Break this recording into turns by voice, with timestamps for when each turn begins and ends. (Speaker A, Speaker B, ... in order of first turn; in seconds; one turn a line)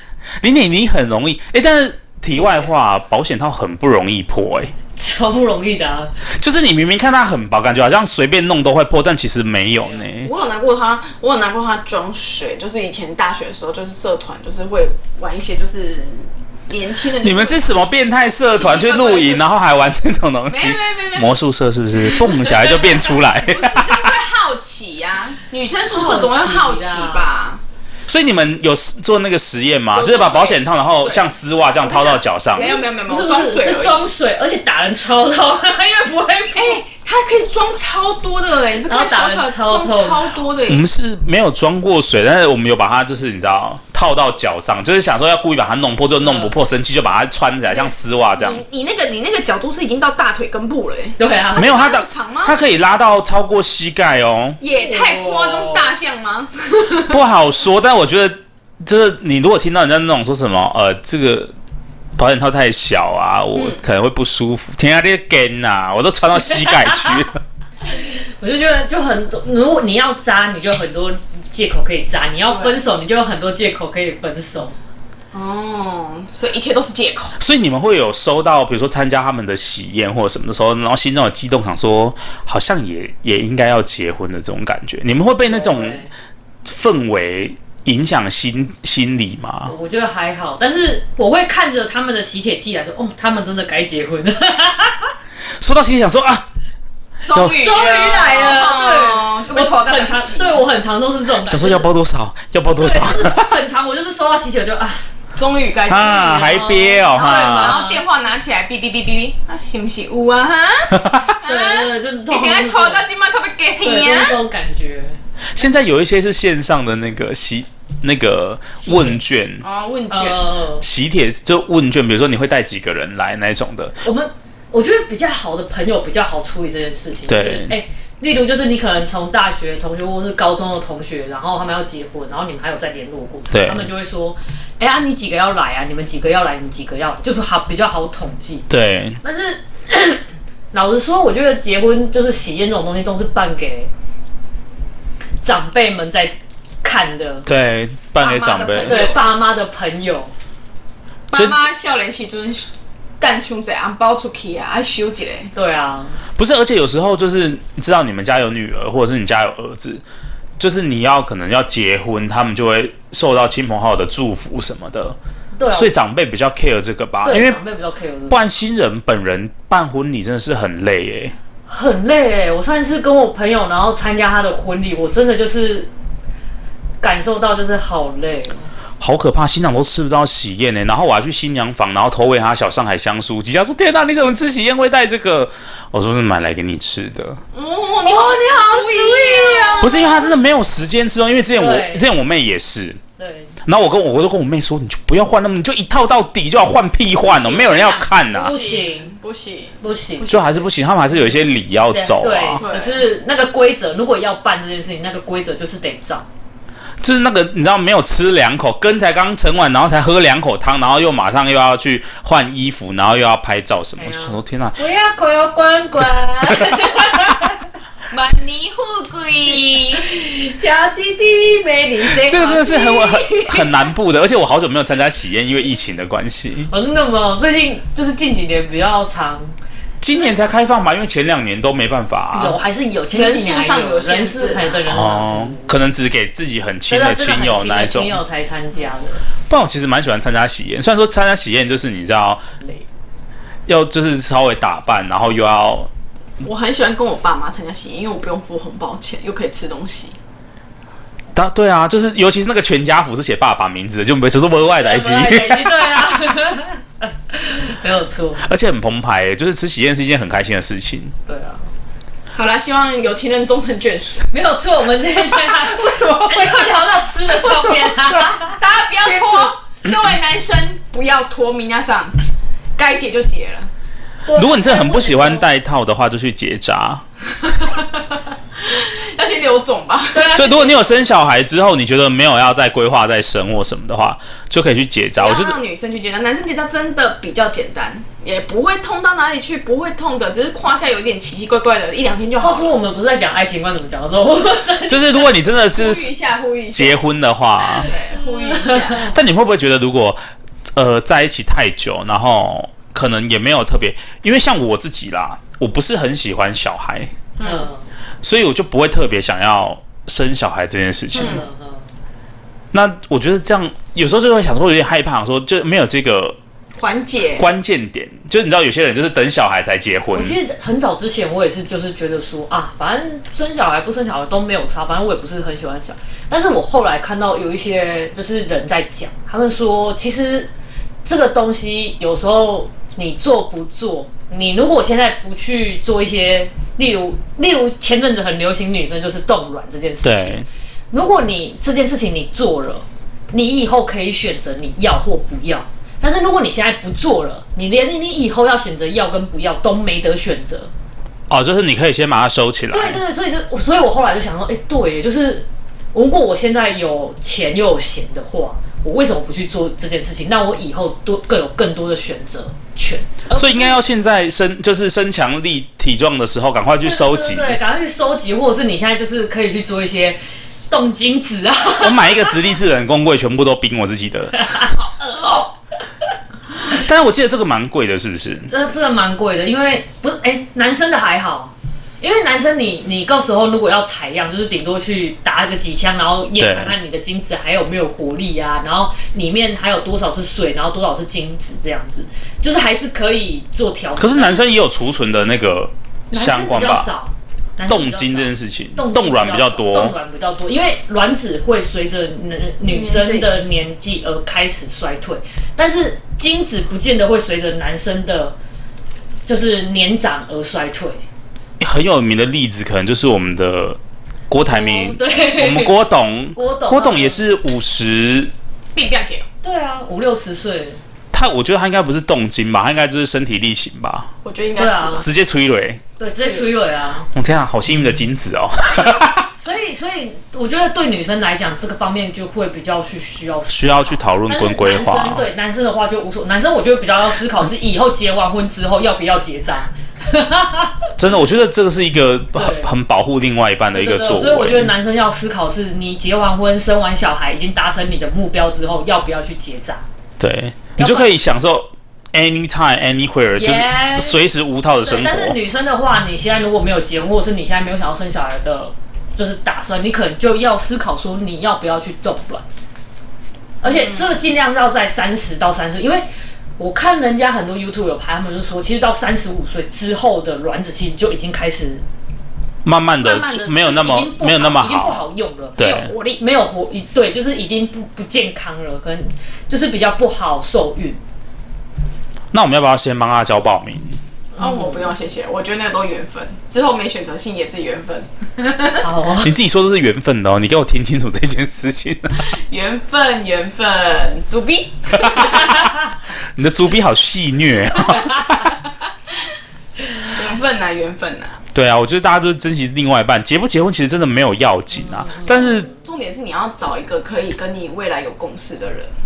Speaker A: 0.4-4.7
Speaker B: 4.9-6.1
Speaker A: 6.4-10.3
Speaker B: 9.8-10.3
Speaker C: 10.2-17.7
Speaker A: 17.2-24.1
Speaker C: 18.4-19.4
Speaker C: 20.5-21.3
Speaker C: 22.1-27.6
Speaker B: 25.9-27.3
Speaker A: 28.1-32.7
Speaker C: 29.9-31.3
Speaker C: 31.8-34.1
Speaker B: 32.6-36.8
Speaker C: 36.5-40.8
Speaker B: 38.9-40.3
Speaker A: 40.7-48.6
Speaker B: 46.2-46.5
Speaker C: 47.7-52.6
Speaker B: 51.2-51.6
Speaker A: 51.5-54.6
Speaker C: 54.6-57.2
Speaker B: 54.7-55.9
Speaker A: 57.1-61.5
Speaker A: 62.2-67.4
Speaker C: 63.5-63.8
Speaker B: 66.5-67.2
Speaker B: 67.8-74.8
Speaker C: 72.5-72.8
Speaker C: 75.3-77.3
Speaker A: 77.4-86.0
Speaker B: 85.4-86.1
Speaker A: 86.6-89.7
Speaker B: 89.7-95.1
Speaker A: 95.6-96.5
Speaker C: 97.2-100.6
Speaker B: 97.5-101.9
Speaker A: 101.4-103.5
Speaker B: 102.8-105.0
Speaker C: 105.3-114.4
Speaker A: 105.9-107.8
Speaker B: 106.3-108.0
Speaker A: 110.9-111.3
Speaker B: 111.4-113.1
Speaker B: 113.8-115.2
Speaker A: 115.5-119.6
Speaker C: 119.6-120.5
Speaker B: 120.1-120.8
Speaker A: 120.8-124.0
Speaker B: 124.0-138.7
Speaker A: 127.3-127.7
Speaker A: 133.5-133.9
Speaker A: 138.7-139.2
Speaker B: 139.2-143.9
Speaker B: 145.4-147.4
Speaker A: 147.4-149.1
Speaker C: 148.2-149.3
Speaker B: 148.8-150.3
Speaker C: 151.3-155.5
Speaker B: 155.5-156.2
Speaker A: 156.4-160.0
Speaker A: 160.6-165.2
Speaker B: 165.6-165.9
Speaker A: 165.7-167.6
Speaker B: 167.2-168.4
Speaker A: 168.3-171.3
Speaker B: 171.7-175.9
Speaker B: 177.0-178.7
Speaker A: 179.0-187.4
Speaker C: 187.5-190.1
Speaker B: 188.0-190.3
Speaker A: 189.8-193.0
Speaker B: 191.5-192.1
Speaker B: 193.2-193.5
Speaker A: 193.6-198.6
Speaker B: 197.3-199.1
Speaker C: 197.6-200.7
Speaker B: 199.8-200.3
Speaker A: 200.3-202.6
Speaker B: 201.9-206.2
Speaker C: 202.6-203.2
Speaker A: 207.0-214.8
Speaker B: 214.0-217.5
Speaker A: 216.5-216.8
Speaker C: 218.1-220.1
Speaker B: 219.9-222.8
Speaker A: 222.1-226.7
Speaker C: 222.5-223.7
Speaker B: 226.7-229.5
Speaker A: 230.0-232.6
Speaker B: 232.3-235.7
Speaker C: 233.1-234.9
Speaker A: 234.9-238.2
Speaker B: 236.9-239.3
Speaker A: 239.5-242.5
Speaker A: 243.7-245.9
Speaker C: 246.4-250.2
Speaker A: 251.3-256.1
Speaker B: 254.8-258.4
Speaker A: 258.4-261.1
Speaker B: 261.3-261.7
Speaker C: 262.3-264.3
Speaker B: 264.3-268.6
Speaker A: 265.3-266.7
Speaker A: 267.4-268.4
Speaker C: 268.5-272.2
Speaker C: 272.8-273.7
Speaker B: 274.2-275.5
Speaker A: 274.3-277.0
Speaker C: 277.4-280.3
Speaker B: 280.1-280.8
Speaker A: 280.3-285.6
Speaker C: 285.2-292.7
Speaker B: 292.4-295.3
Speaker A: 294.9-296.1
Speaker C: 295.7-297.0
Speaker A: 296.7-297.9
Speaker B: 297.8-299.0
Speaker C: 297.9-299.1
Speaker A: 299.0-300.2
Speaker A: 300.7-307.1
Speaker C: 307.4-307.7
Speaker B: 307.4-307.9
Speaker A: 308.2-311.4
Speaker B: 311.1-311.9
Speaker C: 311.1-311.4
Speaker A: 312.7-316.4
Speaker C: 316.8-317.5
Speaker A: 317.4-320.4
Speaker B: 320.1-330.5
Speaker B: 331.0-350.7
Speaker A: 340.0-340.5
Speaker A: 351.3-353.0
Speaker B: 352.7-363.8
Speaker A: 363.3-367.6
Speaker B: 366.8-370.2
Speaker B: 370.7-372.4
Speaker A: 371.8-374.5
Speaker B: 374.4-375.5
Speaker A: 376.6-378.5
Speaker B: 378.5-394.5
Speaker A: 386.4-386.7
Speaker A: 394.0-396.9
Speaker B: 396.1-408.4
Speaker A: 397.7-399.9
Speaker C: 402.7-403.3
Speaker B: 409.2-411.0
Speaker A: 411.6-413.8
Speaker A: 414.3-418.3
Speaker B: 414.4-415.8
Speaker B: 416.4-417.2
Speaker C: 418.7-419.3
Speaker B: 419.4-420.8
Speaker A: 421.1-424.1
Speaker C: 424.2-425.1
Speaker B: 424.6-425.1
Speaker A: 425.0-425.8
Speaker B: 426.0-427.1
Speaker C: 426.2-426.5
Speaker A: 427.1-429.3
Speaker B: 429.4-440.9
Speaker A: 433.5-435.2
Speaker A: 441.0-444.7
Speaker B: 442.3-442.8
Speaker B: 443.7-449.8
Speaker A: 450.2-455.4
Speaker B: 450.8-451.1
Speaker B: 453.3-454.2
Speaker B: 454.8-462.4
Speaker B: 463.6-466.1
Speaker C: 463.6-464.3
Speaker B: 466.6-471.8
Speaker A: 472.6-475.0
Speaker B: 473.0-475.6
Speaker A: 475.6-475.9
Speaker C: 475.6-476.2
Speaker B: 476.2-481.0
Speaker A: 482.3-484.0
Speaker B: 484.3-484.9
Speaker C: 484.4-488.9
Speaker B: 488.8-489.3
Speaker A: 489.2-492.2
Speaker C: 492.4-495.6
Speaker A: 495.0-495.3
Speaker A: 496.3-498.5
Speaker C: 500.1-501.4
Speaker A: 501.5-505.7
Speaker B: 504.7-505.8
Speaker C: 505.7-508.9